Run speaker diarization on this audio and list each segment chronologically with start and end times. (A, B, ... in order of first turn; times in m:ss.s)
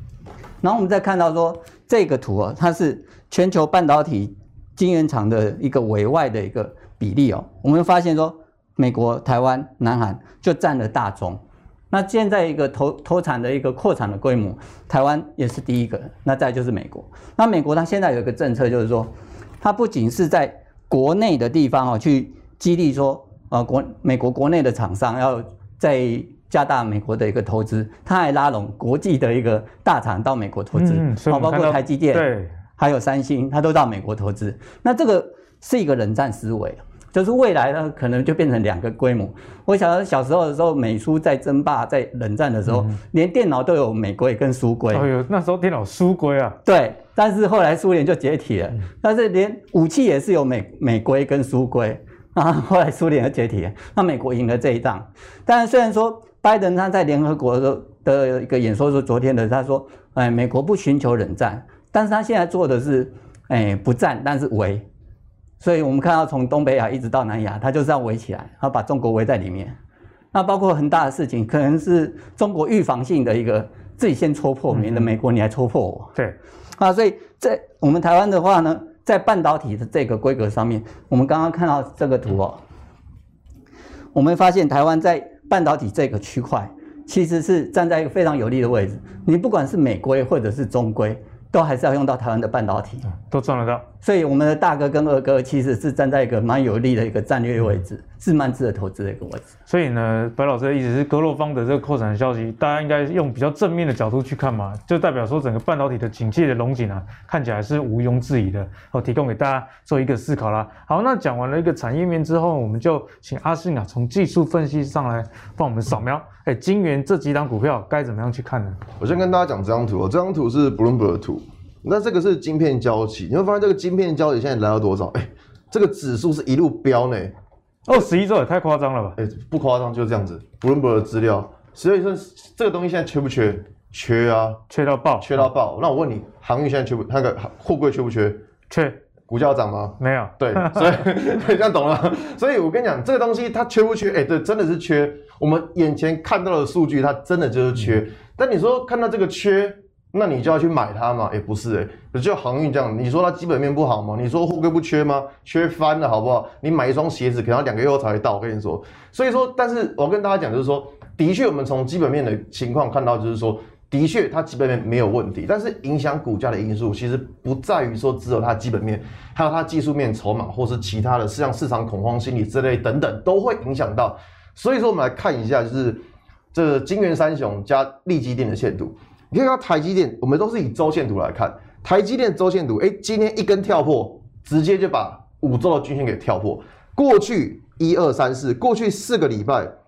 0:00.6-0:45.1 A
0:30.7-0:32.5 B
0:44.9-0:46.6 B
0:46.6-1:04.8 A
1:05.6-1:09.8 A
1:10.3-1:16.2 A
1:14.7-1:15.0 B
1:16.8-1:22.6 A
1:24.1-1:33.1 A
1:33.3-1:33.8 B
1:34.0-1:39.5 A
1:39.7-1:58.8 B
1:59.0-2:07.3 C
2:07.8-2:09.2 B
2:09.2-2:14.6 C
2:14.7-2:15.4 B
2:15.2-2:18.4 C
2:18.7-2:19.0 B
2:19.3-3:09.7 C
2:20.0-2:21.0 B